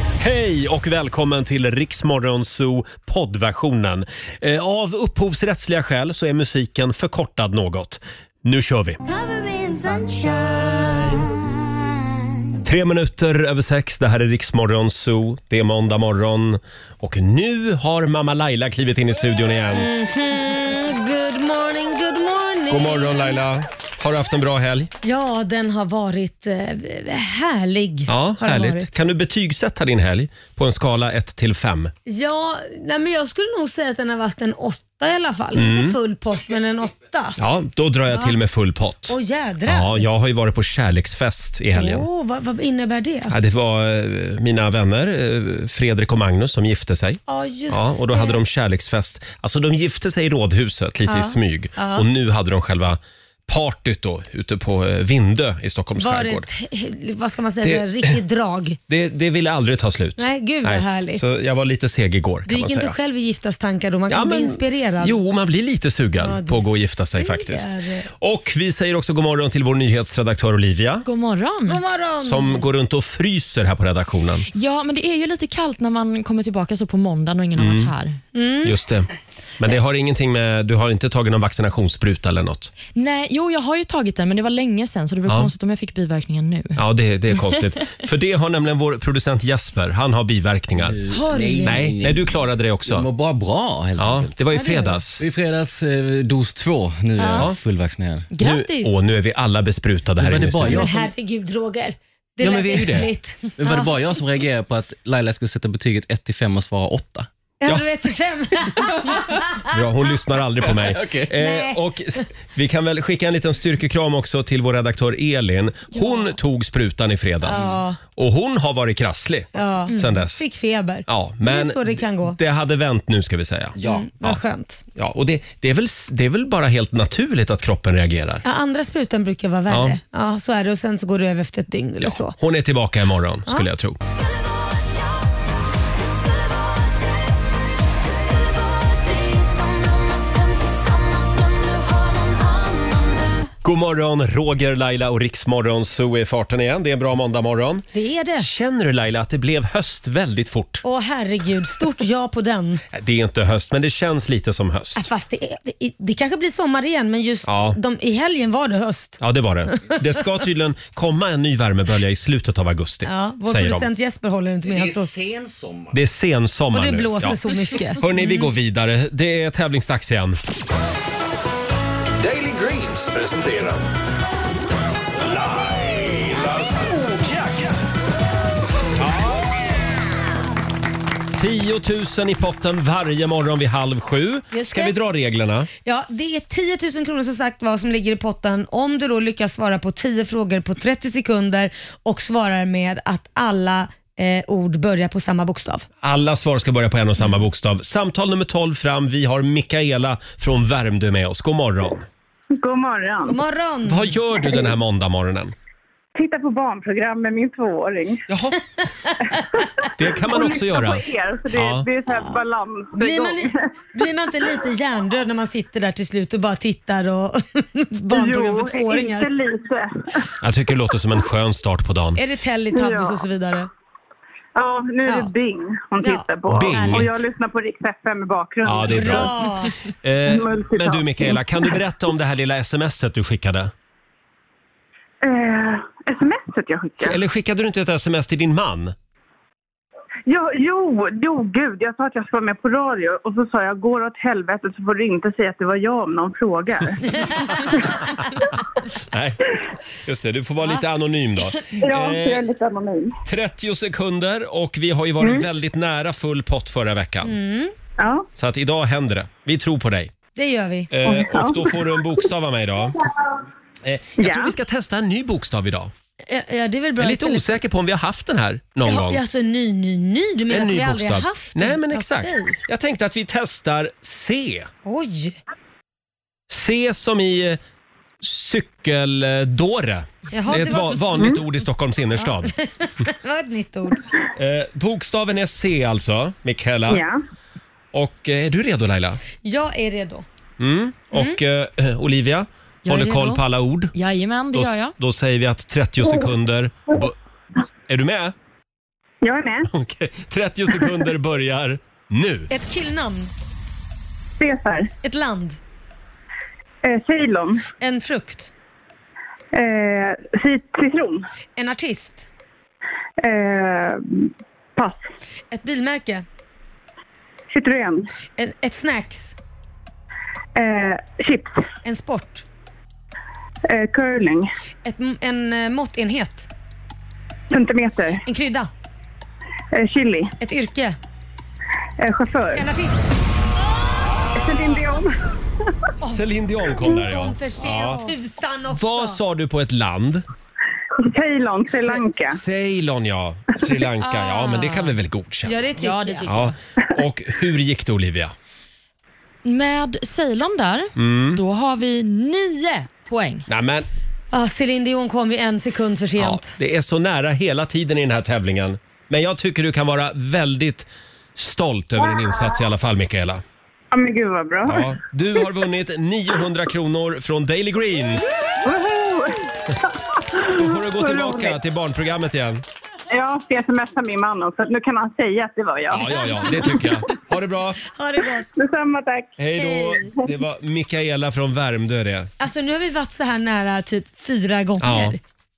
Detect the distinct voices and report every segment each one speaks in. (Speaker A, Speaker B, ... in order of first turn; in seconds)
Speaker A: 0.2-9.0, 12.7-19.9, 22.7-24.9, 28.1-31.9, 35.5-36.0, 37.4-42.1, 43.3-56.5, 57.6-58.2, 58.9-63.0, 64.1-71.1, 72.2-74.5, 77.6-77.9, 78.6-82.7, 86.8-91.0, 91.6-93.1, 94.0-95.2, 98.4-100.9, 102.4-103.1, 109.7-120.4, 121.1-124.4, 125.0-128.4, 129.7-130.0, 132.0-134.0, 143.6-147.9, 148.4-150.8, 152.9-155.0, 157.5-157.8, 159.2-163.9, 165.9-167.4, 167.9-170.4, 179.0-179.3, 181.4-185.7, 196.0-202.1, 203.9-205.5, 208.3-208.6, 210.0-211.9, 220.4-222.2, 226.5-227.2, 228.6-229.4, 230.0-233.7, 237.0-238.9, 249.1-252.5, 253.2-257.4, 258.4-260.1, 260.9-263.0, 263.8-265.9, 267.0-269.2, 270.5-274.7, 276.5-277.6, 278.2-282.5, 284.4-287.0, 287.9-289.2, 290.6-293.9, 294.5-297.2, 297.9-298.4, 299.7-302.5, 336.0-338.0, 338.7-340.3, 341.8-345.6, 346.3-348.3, 351.0-351.4, 353.5-353.9, 356.2-363.4, 364.6-368.3, 370.5-372.6, 375.9-377.8, 379.4-382.3, 384.8-385.2
Speaker B: 9.0-12.2, 134.2-135.2, 136.2-137.3, 138.3-143.5
Speaker C: 19.7-23.3, 25.0-28.9, 32.1-37.4, 38.1-38.4, 39.1-40.1, 41.7-43.4, 47.3-48.4, 51.1-52.0, 56.0-58.8, 60.2-61.2, 62.5-65.2, 66.2-68.1, 71.7-72.7, 78.3-78.7, 91.1-92.0, 94.5-95.0, 97.2-97.5, 100.7-103.9, 107.6-109.4, 111.3-112.2, 115.9-116.3, 117.4-118.0, 119.5-122.4, 123.8-124.8, 128.4-132.4, 147.9-148.5, 150.8-152.8, 154.9-159.2, 163.1-165.2, 166.7-168.5, 184.5-184.9, 185.8-195.9, 203.3-204.7, 208.8-209.4, 213.0-219.3, 222.2-223.7, 225.1-225.3, 226.0-227.1, 228.9-229.7, 257.2-257.7, 260.4-260.9, 266.3-267.6, 268.9-272.6, 274.9-275.4, 280.3-281.3, 282.2-284.0, 289.4-290.2, 291.1-291.4, 302.5-303.3, 305.0-305.6, 307.8-308.5, 311.6-312.3, 315.5-316.2, 318.4-319.4, 321.8-322.4, 324.9-326.5, 328.2-328.7, 330.4-331.0, 332.5-333.0, 336.8-339.2, 345.4-346.3, 354.3-356.6, 377.9-378.5, 379.6-380.1, 382.4-385.2
Speaker D: 71.1-71.8, 74.5-78.2, 82.9-86.8, 98.3-99.0, 292.9-293.4, 293.9-294.9, 344.0-344.9, 345.8-346.5, 349.4-353.5
Speaker E: 90.8-94.4, 95.2-98.3, 100.2-101.1, 102.5-107.3, 110.7-111.2, 123.8-124.1, 164.7-165.9
Speaker F: 172.2-173.9, 175.2-177.8
Speaker G: 202.6-203.4, 206.2-208.2, 209.8-213.6, 218.1-220.3, 222.7-223.2, 224.6-229.5, 230.2-231.7, 235.2-237.2, 240.3-248.1, 251.8-253.2, 255.2-255.5, 258.0-258.3, 261.1-262.0, 264.2-264.5, 286.9-287.2, 299.2-299.7, 304.4-304.9, 306.8-307.6, 309.5-311.3, 313.2-315.1, 317.5-318.1, 320.6-321.6, 323.7-324.5, 327.5-328.2, 329.7-330.3, 332.0-332.7, 334.3-335.1, 341.0-342.4, 363.9-364.9, 368.6-369.4, 370.1-371.5, 373.1-376.7, 378.6-379.3